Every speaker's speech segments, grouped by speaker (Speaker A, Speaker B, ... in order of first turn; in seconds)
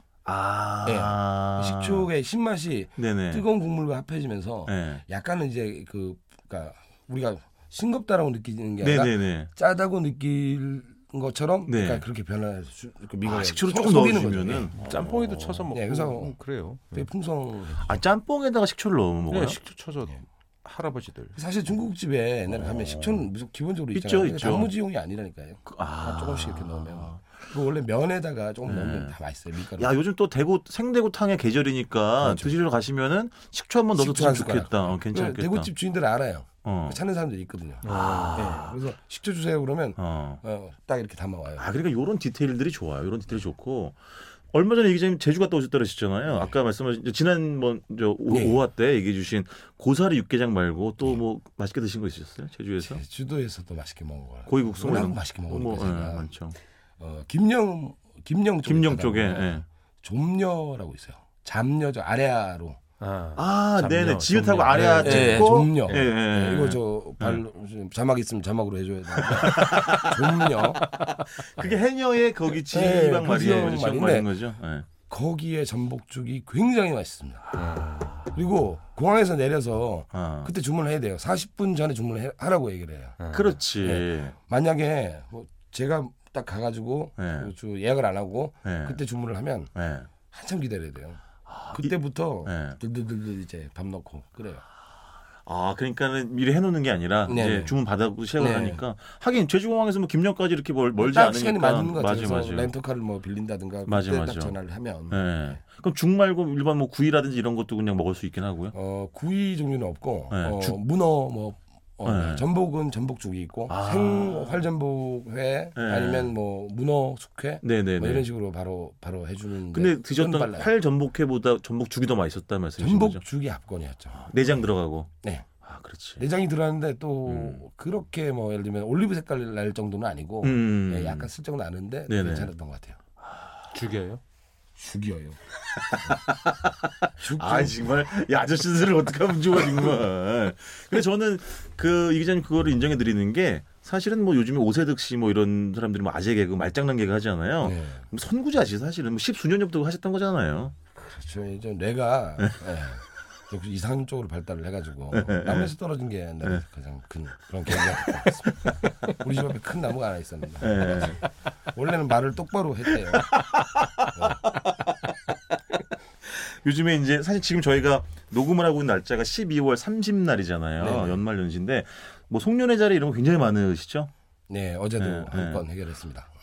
Speaker A: 0.2-2.1, 3.0-3.4, 4.7-5.0, 8.8-9.5, 11.7-12.0, 13.2-15.7, 17.8-19.6, 22.5-23.3, 23.9-24.7, 25.6-27.3, 28.6-29.1, 29.7-35.7, 36.6-37.0, 37.9-38.7, 40.0-40.4, 41.6-44.0, 44.5-53.0, 54.5-56.5, 58.6-59.6, 63.4-67.4, 69.2-70.5, 71.4-74.9, 80.1-80.5, 83.3-84.3, 87.2-87.5, 88.6-89.0, 89.7-90.1, 91.5-91.9, 92.4-92.8, 95.5-102.7, 103.8-104.5, 105.1-108.7, 110.3-110.8, 112.0-112.4, 113.7-114.6, 115.8-116.3, 117.6-118.2, 119.7-123.2, 124.1-125.1, 125.6-126.2, 127.3-127.6, 130.4-131.3, 132.1-132.5, 135.9-136.7, 137.3-150.7, 155.1-155.7, 157.9-158.7, 160.6-161.2, 163.6-164.0, 166.3-174.1, 175.0-175.6
Speaker B: 0.8-14.7, 15.7-16.3, 16.9-18.0, 21.4-29.9, 32.2-32.6, 34.0-41.7, 46.3-46.5, 48.3-48.6, 52.8-56.3, 57.0-62.8, 64.7-70.8, 72.7-74.3, 75.1-77.6, 78.3-83.2, 83.8-89.7, 90.3-94.6, 97.3-97.8, 98.4-98.8, 101.0-105.5, 108.7-120.7, 122.8-124.2, 125.2-125.5, 126.2-133.0, 134.8-135.4, 137.2-137.9, 147.6-148.0, 150.9-161.2, 161.7-163.4, 164.1-164.4, 170.8-171.2, 174.5-176.3
Speaker C: 14.8-17.0, 19.3-21.4, 37.8-38.7, 63.0-66.0, 77.5-78.2, 83.2-83.6, 133.7-134.2